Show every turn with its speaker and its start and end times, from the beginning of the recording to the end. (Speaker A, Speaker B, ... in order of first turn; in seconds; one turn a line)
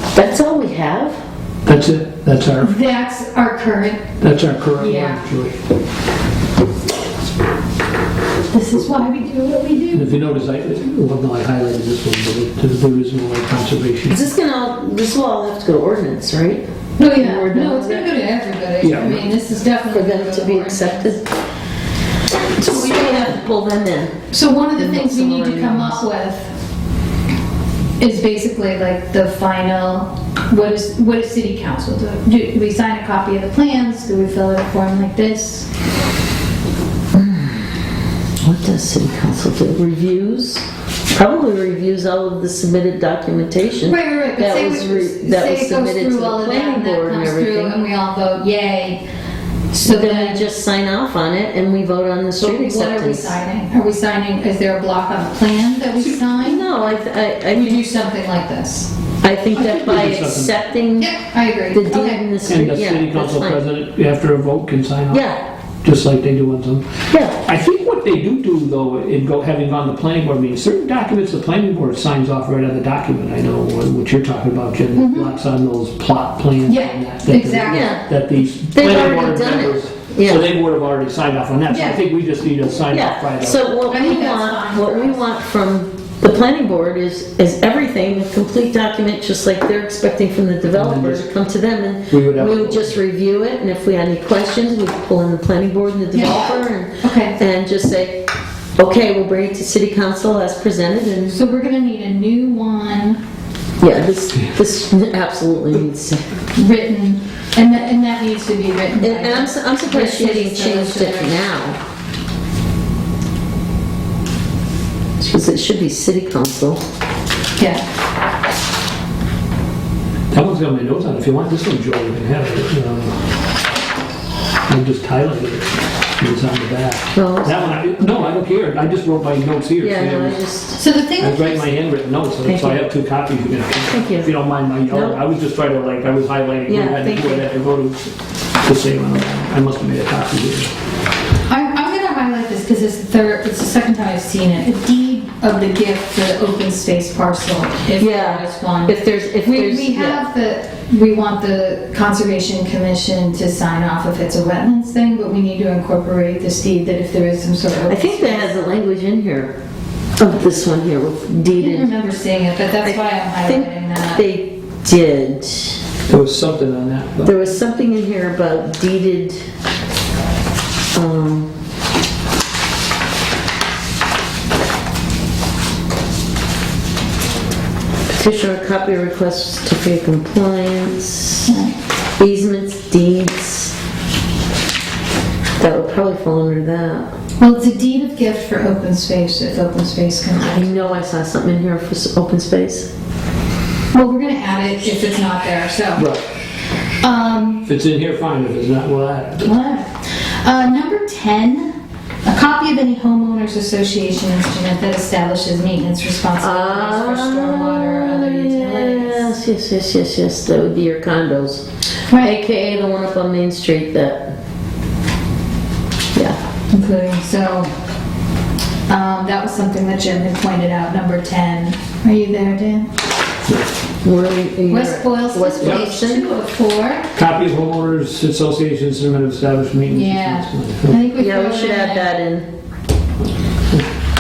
Speaker A: 0.1-1.2
Speaker B: 1.6-2.7
Speaker C: 2.6-4.1
Speaker B: 4.2-5.5
Speaker C: 4.8-5.2
Speaker C: 8.5-10.2
Speaker B: 9.9-14.2
Speaker A: 14.1-18.1
Speaker C: 17.0-21.1
Speaker B: 18.8-19.3
Speaker A: 19.9-21.2
Speaker A: 22.4-24.2
Speaker C: 24.3-26.5
Speaker A: 24.8-26.1
Speaker C: 28.0-35.7
Speaker A: 37.2-37.7
Speaker A: 38.4-47.8
Speaker C: 43.8-49.0
Speaker C: 49.7-50.5
Speaker A: 49.8-53.3
Speaker C: 52.4-56.8
Speaker A: 56.0-57.9
Speaker C: 57.5-58.9
Speaker A: 59.2-61.2
Speaker B: 59.5-60.5
Speaker C: 61.0-62.2
Speaker A: 61.7-63.6
Speaker B: 62.5-65.2
Speaker A: 65.1-65.4
Speaker B: 65.8-66.8
Speaker A: 67.1-67.4
Speaker B: 67.4-83.7
Speaker C: 75.0-75.3
Speaker C: 76.7-78.0
Speaker A: 77.7-78.1
Speaker A: 78.7-80.5
Speaker C: 81.7-82.0
Speaker A: 82.9-98.2
Speaker C: 83.9-85.2
Speaker B: 90.7-91.3
Speaker B: 92.1-93.0
Speaker C: 96.1-97.4
Speaker A: 98.8-101.4
Speaker C: 101.3-103.2
Speaker A: 103.8-106.3
Speaker C: 106.5-111.4
Speaker A: 109.0-111.8
Speaker A: 115.2-116.8
Speaker C: 117.6-117.8
Speaker B: 120.3-123.2
Speaker B: 124.7-130.4
Speaker A: 127.1-127.6
Speaker A: 129.8-130.8
Speaker C: 130.8-131.7
Speaker B: 131.2-140.7
Speaker A: 132.4-132.8
Speaker A: 133.9-134.3
Speaker A: 134.9-135.2
Speaker A: 136.7-137.4
Speaker C: 141.5-158.5
Speaker A: 148.0-150.2
Speaker A: 157.9-159.6
Speaker A: 160.2-161.9
Speaker C: 161.5-164.2
Speaker A: 162.8-165.8
Speaker B: 166.1-167.5
Speaker A: 167.2-169.4
Speaker A: 170.9-171.5
Speaker A: 178.1-181.5
Speaker C: 181.5-181.7
Speaker A: 182.2-183.7
Speaker A: 185.6-187.1
Speaker C: 187.4-190.7
Speaker A: 190.4-192.9
Speaker C: 193.9-196.0
Speaker B: 195.9-196.2
Speaker C: 197.0-197.7
Speaker B: 197.6-199.5
Speaker C: 199.4-209.3
Speaker A: 206.4-214.3
Speaker C: 212.1-212.3
Speaker A: 216.1-216.4
Speaker C: 216.7-217.7
Speaker C: 218.9-222.9
Speaker A: 224.0-226.3
Speaker C: 224.7-227.1
Speaker B: 225.6-225.9
Speaker B: 227.1-231.0
Speaker C: 229.9-232.1
Speaker A: 231.1-232.5